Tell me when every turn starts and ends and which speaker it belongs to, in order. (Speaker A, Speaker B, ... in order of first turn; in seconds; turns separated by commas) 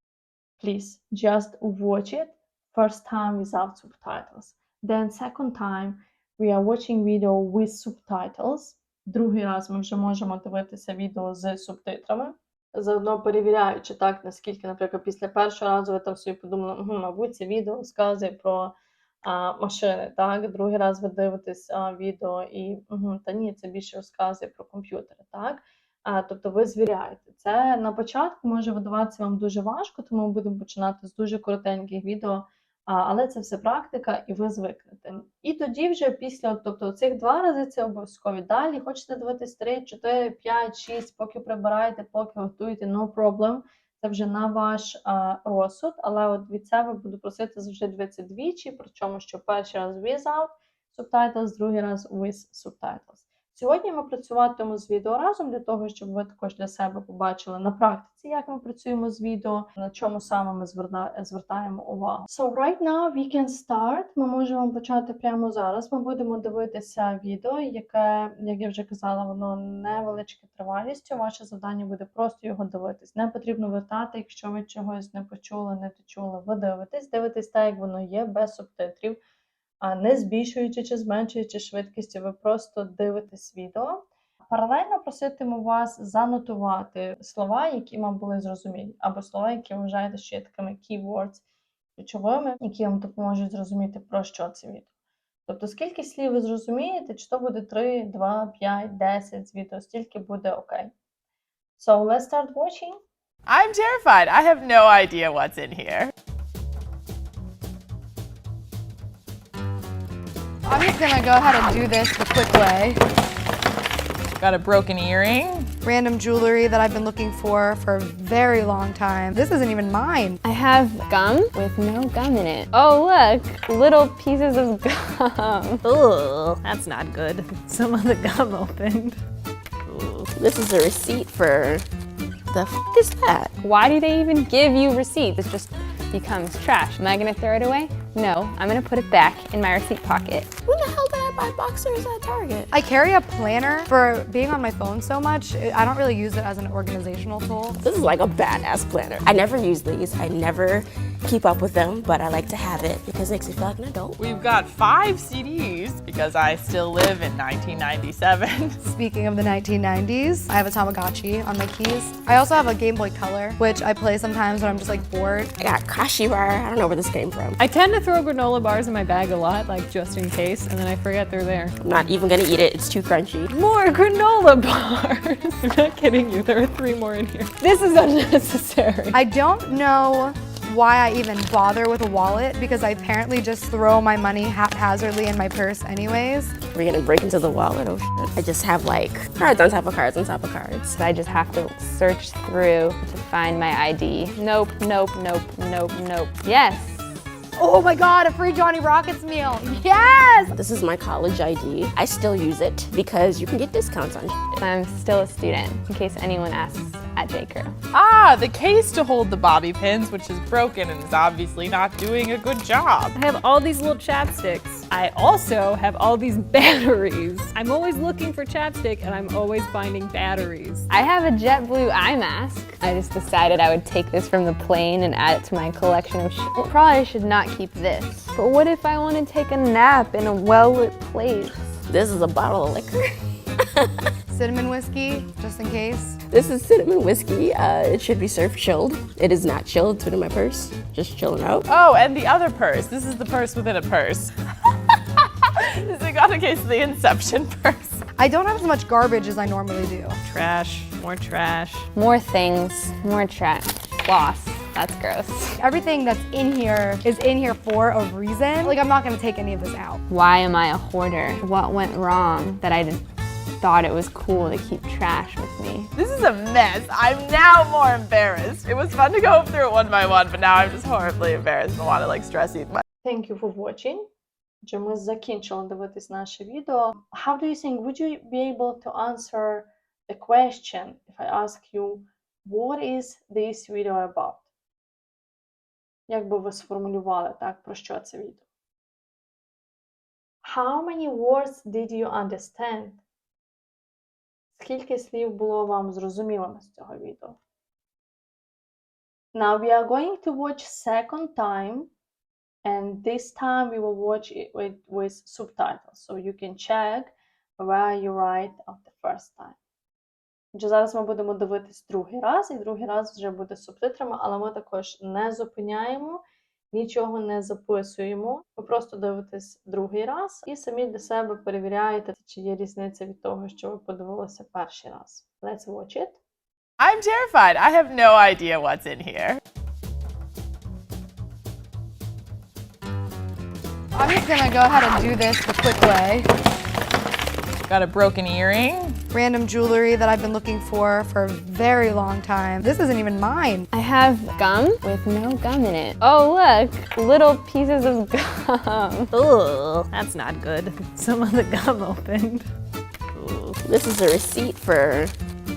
Speaker A: 0.6-79.2, Speaker A: 79.8-91.4, Speaker A: 92.0-94.9, Speaker A: 95.5-100.9, Speaker A: 101.8-103.0, Speaker B: 103.5-106.1, Speaker C: 110.7-113.0, Speaker B: 114.4-115.7, Speaker C: 115.8-120.4, Speaker D: 120.4-125.8, Speaker E: 125.8-129.2, Speaker E: 129.9-130.3, Speaker F: 130.3-131.8, Speaker F: 132.5-133.5, Speaker D: 133.6-140.5, Speaker F: 140.7-142.7, Speaker C: 142.7-147.8, Speaker F: 147.8-154.2, Speaker B: 154.2-158.8, Speaker C: 158.8-165.5, Speaker F: 165.6-167.6, Speaker E: 167.6-171.7, Speaker F: 171.8-173.5, Speaker E: 173.5-179.2, Speaker C: 179.1-186.5, Speaker F: 186.7-191.0, Speaker D: 190.9-197.1, Speaker C: 197.6-200.5, Speaker F: 200.5-204.6, Speaker D: 204.6-207.8, Speaker B: 207.9-213.2, Speaker E: 213.1-220.9, Speaker D: 220.9-231.7, Speaker F: 231.9-233.0, Speaker F: 233.6-233.9, Speaker C: 234.3-236.2, Speaker F: 236.3-241.7, Speaker B: 241.7-248.0, Speaker C: 248.2-250.2, Speaker B: 250.2-251.8, Speaker E: 250.3-251.6, Speaker D: 251.9-255.6, Speaker C: 255.6-260.0, Speaker D: 260.1-263.0, Speaker D: 263.6-265.9, Speaker B: 266.0-272.8, Speaker A: 273.0-274.1, Speaker A: 274.6-284.4, Speaker A: 286.1-288.4, Speaker A: 290.4-293.0, Speaker A: 294.6-297.4, Speaker A: 299.3-301.9, Speaker A: 302.6-309.6, Speaker A: 310.5-316.2, Speaker A: 316.7-326.2, Speaker B: 326.8-329.4, Speaker C: 333.9-336.3, Speaker B: 337.7-339.0, Speaker C: 339.1-343.6, Speaker D: 343.7-349.1, Speaker E: 349.1-352.5, Speaker E: 353.1-353.6, Speaker F: 353.6-355.1